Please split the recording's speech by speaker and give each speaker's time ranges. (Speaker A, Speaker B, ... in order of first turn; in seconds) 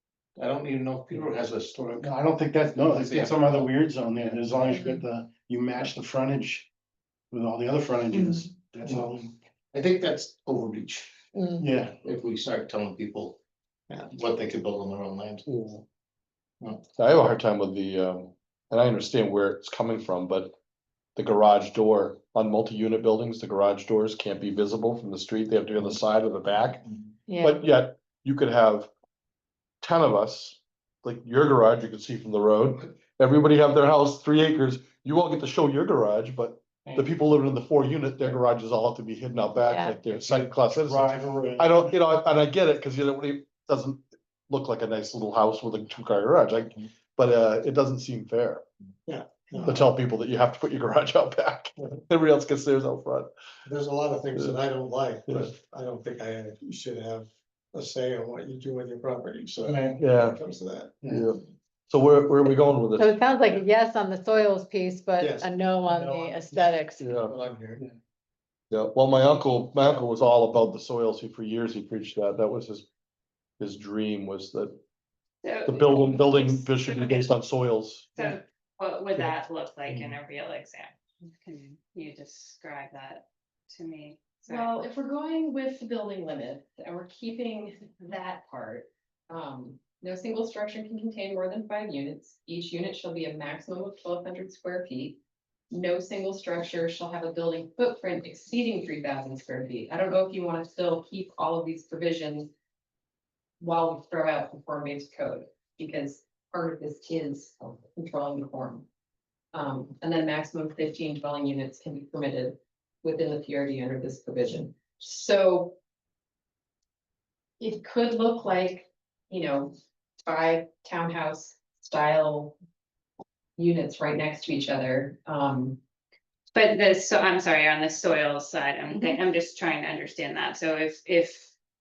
Speaker A: 0.3-2.1, 2.8-3.7, 8.8-9.1, 9.7-11.2, 11.8-15.4
Speaker B: 2.0-6.7, 7.3-9.3, 11.6-11.9, 40.1-41.9, 59.6-60.0
Speaker C: 8.1-8.5, 11.3-11.6, 27.3-27.6, 39.6-40.0, 63.0-67.1
Speaker D: 15.4-15.8, 16.9-20.5, 21.1-26.9, 27.4-28.9, 29.8-48.6, 49.6-53.3, 55.3-55.5, 60.0-60.4, 61.0-63.2, 67.0-67.3, 68.7-72.9, 73.6-74.8, 75.7-78.3
Speaker E: 49.0-49.8, 53.6-61.1, 65.2-67.8
Speaker F: 75.4-77.4, 78.2-84.7, 126.5-131.5
Speaker G: 84.5-95.2, 95.7-102.5, 103.6-108.8, 109.5-115.8, 117.6-122.5, 123.6-125.8